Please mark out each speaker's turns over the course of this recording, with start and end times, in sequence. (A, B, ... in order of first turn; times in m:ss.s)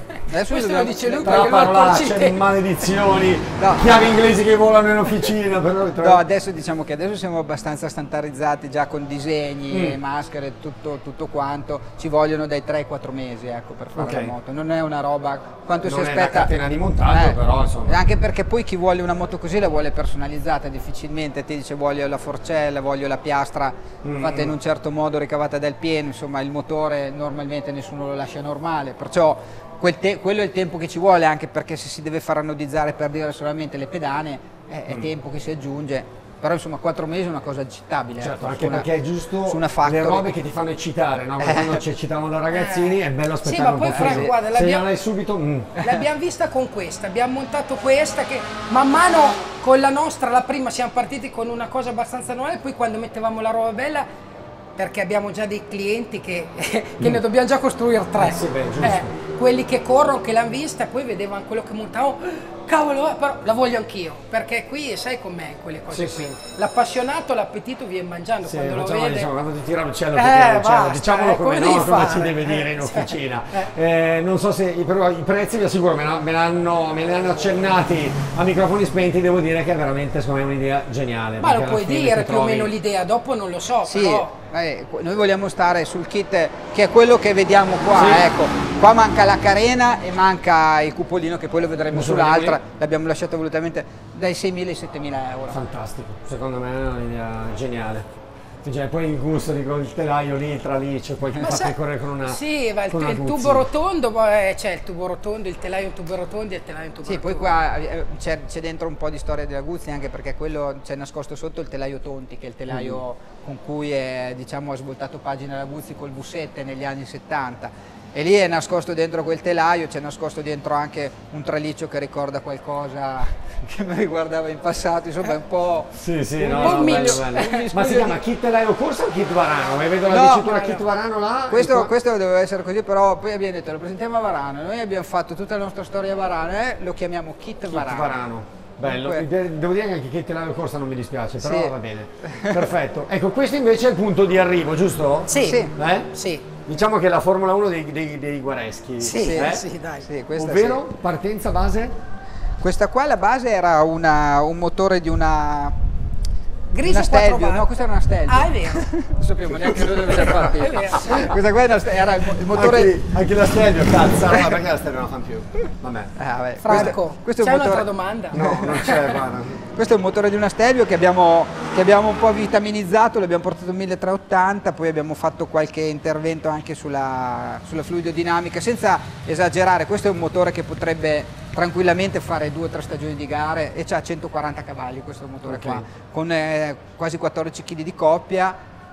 0:00.3-0:01.7 A
0:00.4-0:02.4 B
0:01.2-0:06.2 C
0:03.6-0:03.8 A
0:06.0-0:16.5 A
0:09.7-0:10.0 C
0:13.9-0:14.3 C
0:15.8-0:18.0 C
0:17.1-0:38.9 A
0:24.0-0:24.5 C
0:38.2-0:45.7 C
0:39.4-0:40.2 A
0:41.4-0:41.8 A
0:42.5-0:44.9 B
0:43.9-0:44.3 A
0:45.8-0:54.1 B
0:54.8-1:09.3 B
0:58.2-0:59.1 C
1:05.9-1:06.4 C
1:08.4-1:22.7 C
1:10.1-1:13.7 B
1:21.4-1:24.3 B
1:23.8-1:35.6 A
1:27.9-1:28.3 C
1:31.9-1:32.6 C
1:35.5-1:38.0 C
1:38.6-1:43.7 C
1:41.4-1:47.6 B
1:47.0-2:08.1 A
1:52.7-1:53.0 C
2:06.0-2:11.9 C
2:06.5-2:08.1 B
2:10.1-2:10.8 A
2:11.5-2:18.2 A
2:17.6-2:26.1 C
2:18.8-2:19.2 A
2:21.4-2:22.7 A
2:25.3-2:26.5 B
2:25.4-2:25.7 A
2:26.6-2:29.7 C
2:29.0-2:30.1 B
2:29.2-2:30.8 A
2:30.4-2:31.9 C
2:32.6-2:35.8 A
2:36.7-2:37.7 B
2:36.8-2:42.9 A
2:38.2-2:38.9 B
2:39.4-2:40.3 C
2:40.3-2:41.3 B
2:42.5-2:46.1 C
2:46.2-2:48.6 A
2:46.6-2:49.2 B
2:46.7-2:46.9 C
2:48.3-2:49.6 C
2:49.7-3:08.6 A
3:05.4-3:05.8 C